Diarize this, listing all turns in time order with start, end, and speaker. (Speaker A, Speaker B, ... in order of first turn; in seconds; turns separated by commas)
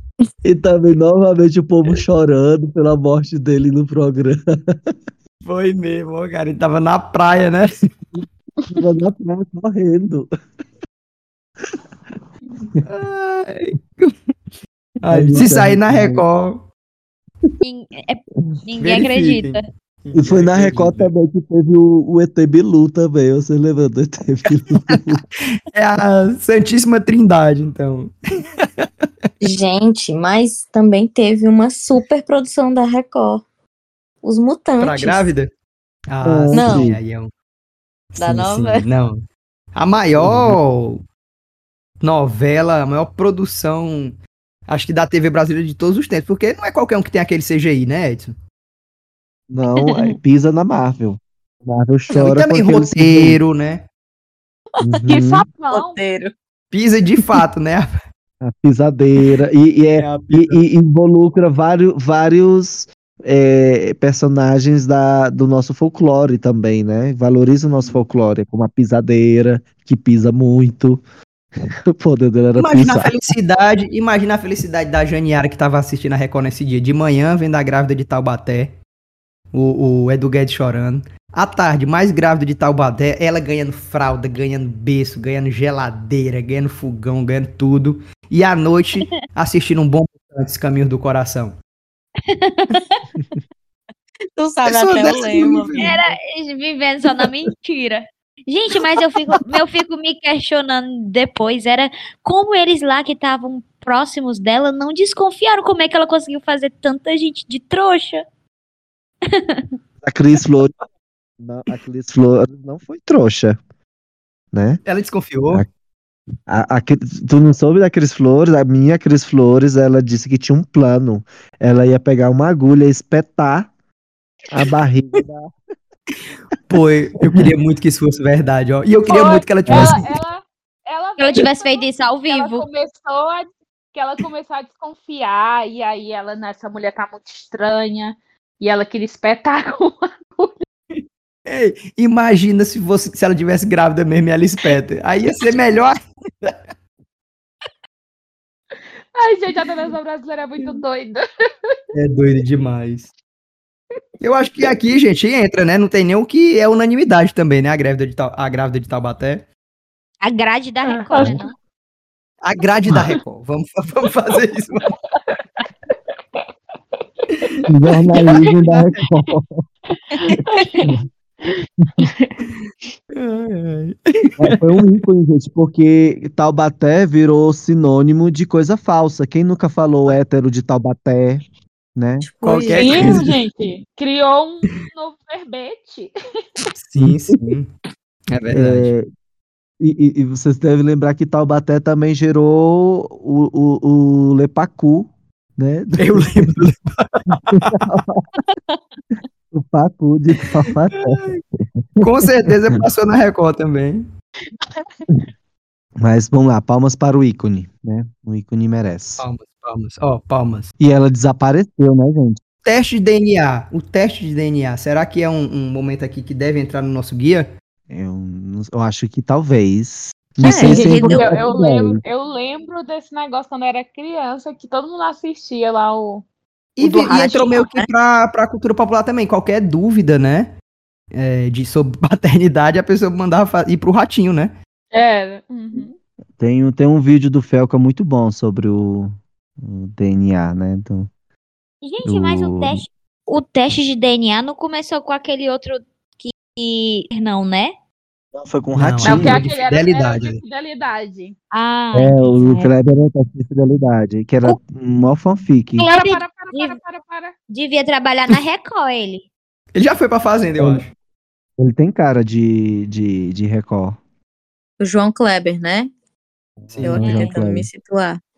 Speaker A: 0.4-4.9, Speaker B: 5.4-7.8, Speaker A: 8.7-10.3, Speaker B: 12.8-14.1, Speaker B: 15.0-16.6, Speaker A: 15.1-16.2, Speaker C: 17.6-19.6, Speaker B: 18.8-21.1, Speaker A: 20.1-25.2, Speaker B: 25.7-28.9, Speaker D: 29.4-33.4, Speaker D: 34.2-35.3, Speaker B: 34.8-35.5, Speaker B: 36.1-37.3, Speaker A: 36.2-37.0, Speaker D: 36.5-36.9, Speaker B: 38.1-39.2, Speaker D: 38.2-38.8, Speaker B: 39.7-41.0, Speaker A: 40.1-40.6, Speaker B: 42.0-44.2, Speaker B: 44.7-48.3, Speaker A: 49.5-53.4, Speaker B: 52.1-53.9, Speaker A: 54.8-55.5, Speaker E: 55.1-56.0, Speaker D: 55.7-56.3, Speaker B: 56.7-57.9, Speaker A: 58.4-71.0, Speaker B: 60.0-60.6, Speaker A: 71.9-73.2, Speaker B: 72.5-78.8, Speaker B: 79.5-91.6, Speaker C: 92.3-93.0, Speaker D: 94.3-95.9, Speaker B: 94.6-96.1, Speaker C: 95.8-108.2, Speaker C: 109.3-109.7, Speaker A: 110.0-110.7, Speaker A: 111.4-113.6, Speaker A: 114.5-114.8, Speaker B: 114.8-115.7, Speaker A: 116.5-123.7, Speaker A: 124.5-125.5, Speaker B: 126.7-130.1, Speaker E: 129.1-140.6, Speaker A: 129.7-130.0, Speaker C: 131.2-132.7, Speaker B: 140.9-146.6, Speaker E: 149.1-151.7, Speaker B: 151.9-153.1, Speaker B: 154.2-159.5, Speaker C: 160.2-161.5, Speaker E: 160.9-161.5, Speaker B: 162.4-164.9, Speaker B: 167.4-167.6, Speaker A: 167.7-169.6, Speaker B: 168.3-168.9, Speaker E: 170.1-170.9, Speaker E: 171.4-172.4, Speaker B: 173.2-174.6, Speaker A: 174.4-181.4, Speaker A: 181.9-182.3, Speaker D: 182.2-183.0, Speaker B: 182.4-183.3, Speaker E: 182.8-186.6, Speaker B: 186.7-187.7, Speaker A: 187.0-187.5, Speaker B: 188.3-188.9, Speaker A: 188.5-189.1, Speaker A: 189.8-196.7, Speaker B: 196.0-197.8, Speaker A: 197.5-198.2, Speaker A: 199.5-201.2, Speaker B: 200.7-201.4, Speaker B: 202.0-204.1, Speaker A: 206.0-209.2, Speaker B: 209.2-210.7, Speaker A: 210.8-212.4, Speaker B: 212.6-217.5, Speaker A: 217.9-222.0, Speaker D: 220.4-221.3, Speaker E: 220.5-226.2, Speaker B: 226.8-230.5, Speaker D: 226.8-227.9, Speaker B: 231.1-234.5, Speaker E: 234.9-235.9, Speaker A: 236.4-241.1, Speaker C: 241.8-247.7, Speaker A: 242.0-242.9, Speaker A: 248.3-249.4, Speaker B: 248.8-250.4, Speaker E: 249.0-251.3, Speaker C: 251.5-252.7, Speaker A: 251.9-255.9, Speaker C: 255.8-256.8, Speaker E: 255.8-257.3, Speaker C: 257.5-259.2, Speaker B: 259.7-260.9, Speaker A: 260.6-260.8, Speaker A: 261.6-264.0, Speaker D: 264.8-265.9, Speaker A: 266.6-267.7, Speaker B: 266.7-267.0, Speaker D: 266.8-268.2, Speaker C: 267.0-267.4